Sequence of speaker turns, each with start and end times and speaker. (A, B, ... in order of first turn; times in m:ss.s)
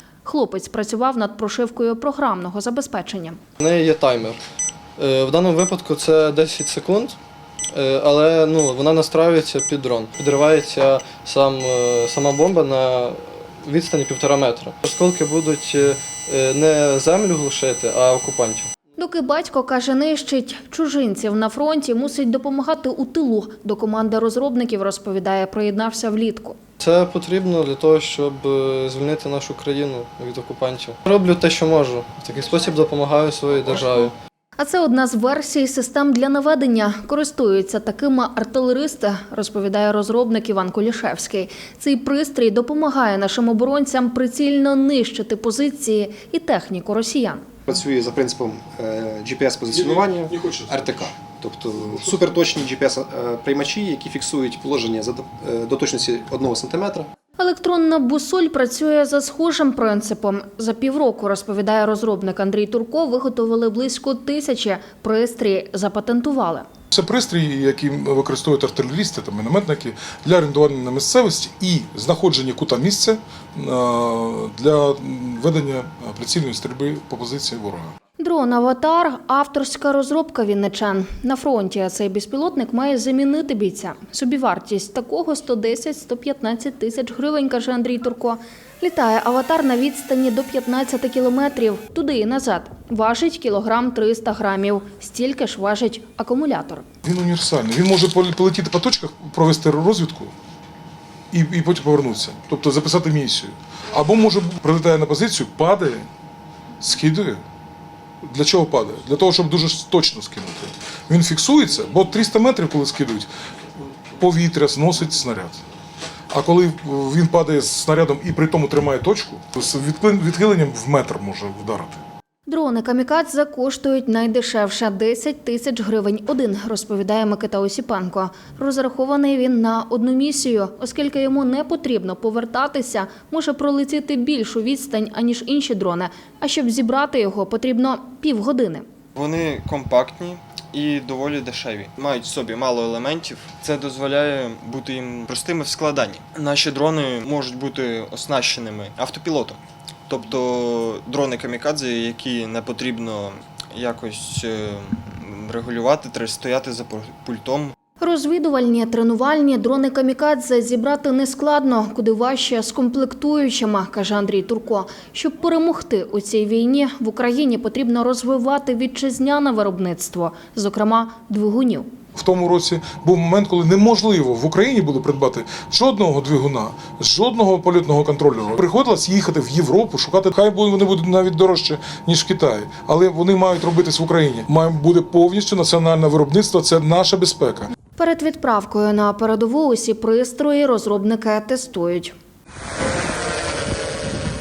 0:00.2-0:03.4 A
0:03.6-0:04.4 B
0:05.0-0:07.2 B
0:07.7-0:18.7 B
0:19.0-0:26.6 A
0:26.8-0:34.1 B
0:34.6-0:47.5 A
0:47.7-0:57.1 C
0:49.7-0:51.1 D
0:57.4-1:06.7 A
1:06.9-1:17.9 D
1:18.2-1:36.8 A
1:37.0-1:40.3 D
1:41.3-1:46.1 D
1:46.8-1:47.4 D
1:48.2-1:53.3 D
1:54.2-1:55.6 D
1:56.3-2:02.0 D
2:02.5-2:18.8 A
2:19.2-2:37.8 E
2:38.0-2:51.9 A
2:52.2-3:07.7 D
3:08.0-3:12.1 A